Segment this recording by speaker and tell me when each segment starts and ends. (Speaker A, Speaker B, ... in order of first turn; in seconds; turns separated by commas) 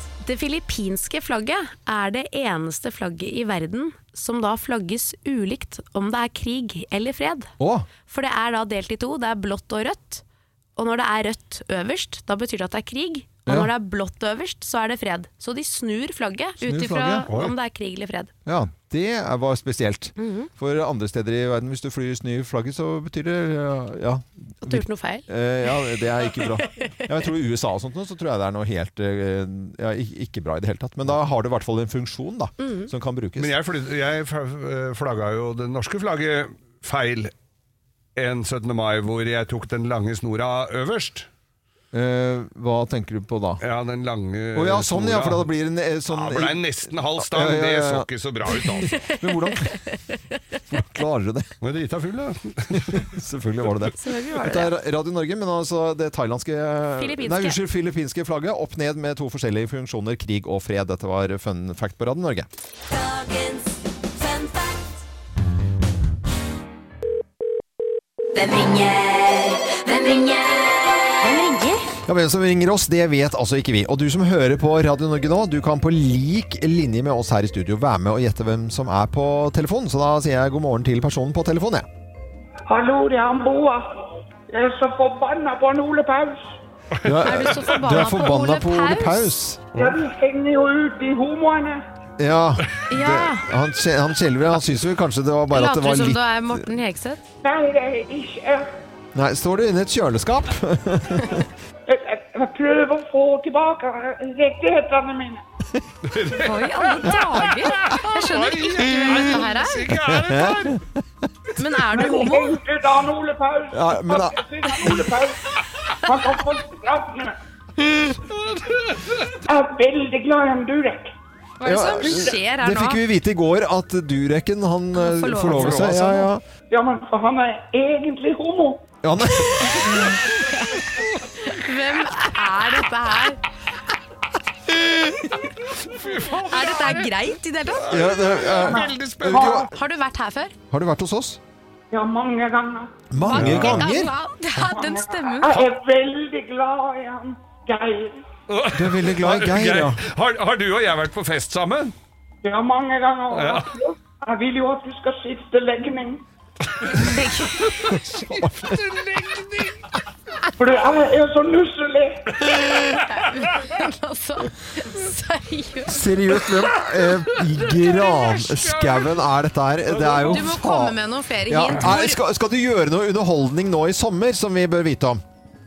Speaker A: 0.2-7.5, Speaker B: 7.6-7.9, Speaker A: 8.1-10.2, Speaker A: 10.8-18.3, Speaker B: 13.5-13.7, Speaker B: 16.6-17.3, Speaker C: 17.3-17.5, Speaker B: 18.5-33.5, Speaker A: 20.2-20.5, Speaker A: 24.6-25.3, Speaker C: 33.4-37.3, Speaker C: 38.2-41.3, Speaker B: 41.9-43.6, Speaker C: 43.6-45.5, Speaker B: 44.5-49.8, Speaker C: 46.1-49.0, Speaker B: 50.7-51.5, Speaker C: 51.6-53.1, Speaker B: 52.9-62.5, Speaker A: 54.0-54.8, Speaker A: 57.0-57.6, Speaker D: 63.0-63.6, Speaker D: 64.2-64.7, Speaker D: 68.4-70.7, Speaker D: 71.2-71.7, Speaker A: 71.2-71.7, Speaker B: 72.1-81.9, Speaker E: 82.7-83.9, Speaker E: 84.5-86.5, Speaker C: 87.0-87.6, Speaker B: 87.0-89.7, Speaker A: 87.2-89.3, Speaker E: 89.8-91.8, Speaker B: 92.2-96.6, Speaker A: 92.9-93.5, Speaker A: 95.5-97.2, Speaker E: 97.4-98.7, Speaker B: 99.2-101.5, Speaker E: 101.9-105.4, Speaker C: 106.0-110.8, Speaker A: 106.3-109.8, Speaker B: 110.0-111.0, Speaker A: 111.6-112.6, Speaker E: 111.9-117.4, Speaker B: 113.7-115.0, Speaker C: 118.3-119.3, Speaker E: 119.5-121.1, Speaker A: 121.6-123.0, Speaker B: 121.6-126.4, Speaker E: 122.1-122.3, Speaker A: 125.0-126.3, Speaker C: 125.5-126.0, Speaker E: 126.7-128.9, Speaker B: 129.0-130.2, Speaker A: 129.8-130.8, Speaker A: 131.4-133.4, Speaker A: 135.0-135.5, Speaker C: 135.7-139.6, Speaker A: 136.4-138.0, Speaker B: 137.9-139.7, Speaker E: 138.6-139.6, Speaker A: 139.4-140.5, Speaker B: 140.7-141.4, Speaker E: 141.9-143.1, Speaker B: 143.1-144.1, Speaker A: 143.2-145.6, Speaker C: 143.3-143.9, Speaker E: 144.6-148.2, Speaker C: 148.5-151.9, Speaker B: 148.7-150.0, Speaker E: 152.4-156.2, Speaker C: 153.3-153.8, Speaker C: 156.8-157.1, Speaker A: 156.9-157.8, Speaker C: 157.6-159.9, Speaker B: 157.8-158.8, Speaker E: 160.6-162.8, Speaker A: 162.9-166.8, Speaker B: 165.9-175.2, Speaker C: 167.8-169.1, Speaker C: 170.0-170.4, Speaker A: 170.0-172.2